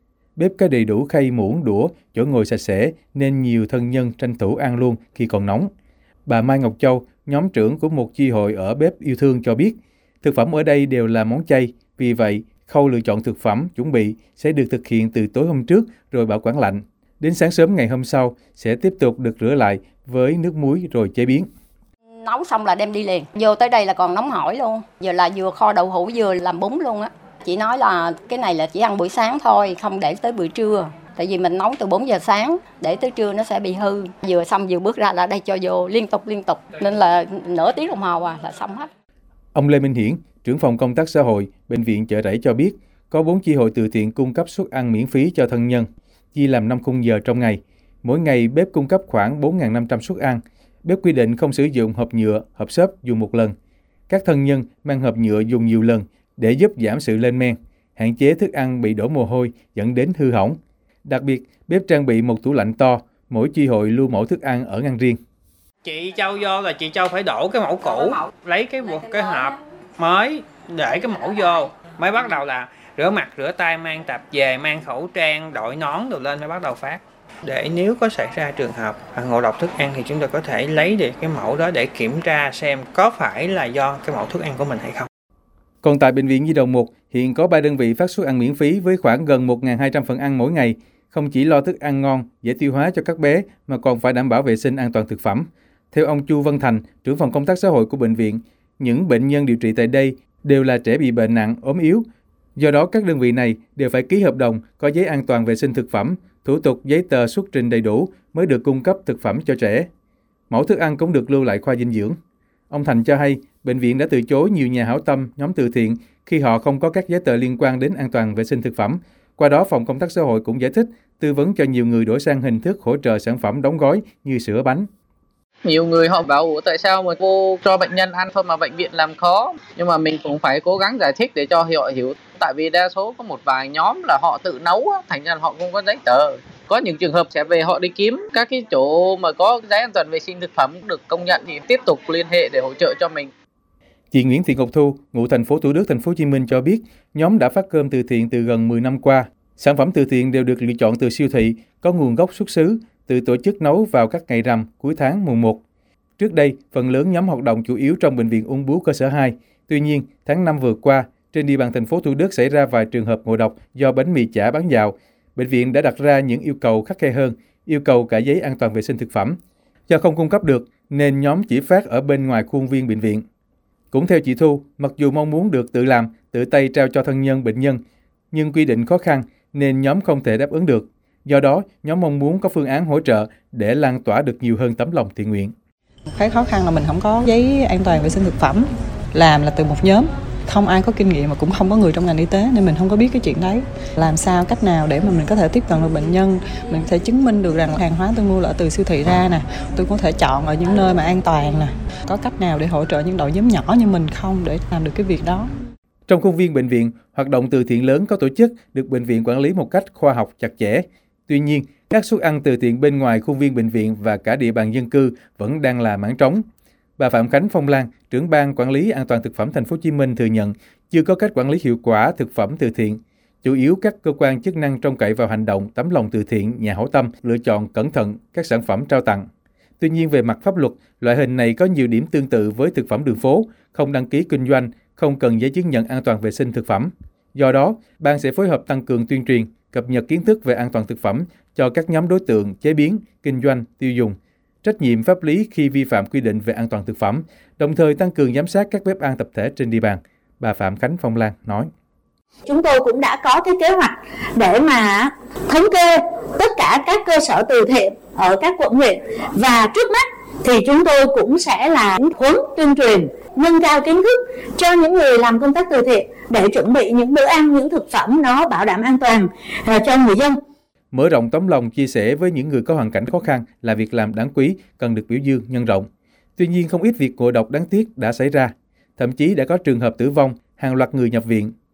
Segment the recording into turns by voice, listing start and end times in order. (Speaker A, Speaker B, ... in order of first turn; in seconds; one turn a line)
Speaker A: 0.3-5.7
Speaker A: 6.3-21.5
Speaker B: 22.2-38.9
Speaker A: 39.5-53.5
Speaker A: 54.1-65.2
Speaker C: 65.8-85.1
Speaker A: 85.8-109.9
Speaker A: 110.5-112.2
Speaker A: 112.7-124.9
Speaker D: 125.7-143.2
Speaker A: 144.1-155.6
Speaker A: 156.2-169.4
Speaker A: 169.9-173.2
Speaker A: 173.9-177.8
Speaker A: 178.3-185.5
Speaker E: 186.1-205.5
Speaker A: 206.1-216.4
Speaker A: 217.0-229.3
Speaker A: 229.8-251.7
Speaker F: 252.4-270.4
Speaker A: 270.9-281.5